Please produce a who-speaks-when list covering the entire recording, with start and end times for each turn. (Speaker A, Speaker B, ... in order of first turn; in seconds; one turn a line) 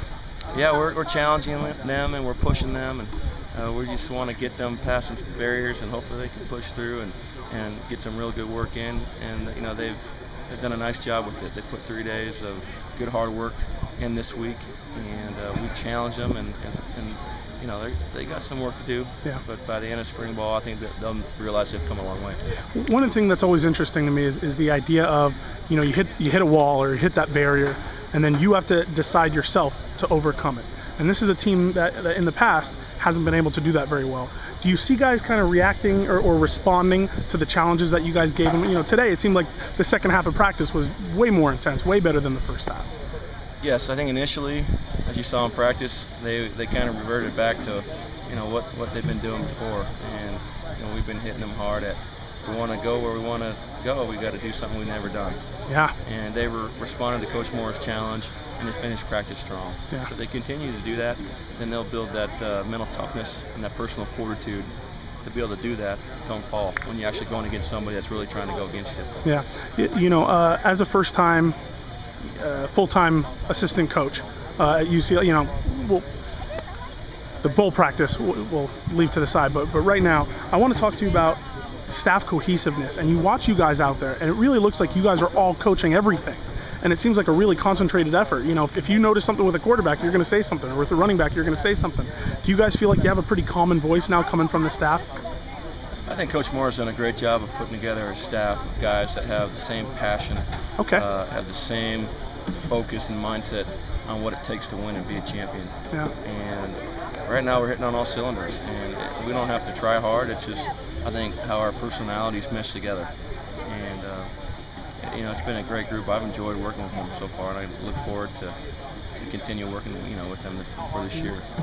Speaker A: 0.5-22.4
Speaker B: 22.7-42.9
Speaker A: 43.6-55.4
Speaker B: 55.7-56.0
Speaker A: 56.0-64.7
Speaker A: 65.2-69.3
Speaker B: 69.2-71.6
Speaker B: 72.2-76.0
Speaker B: 77.4-95.1
Speaker A: 96.1-113.1
Speaker B: 100.8-101.0
Speaker A: 113.7-114.3
Speaker A: 115.0-118.6
Speaker A: 119.2-121.5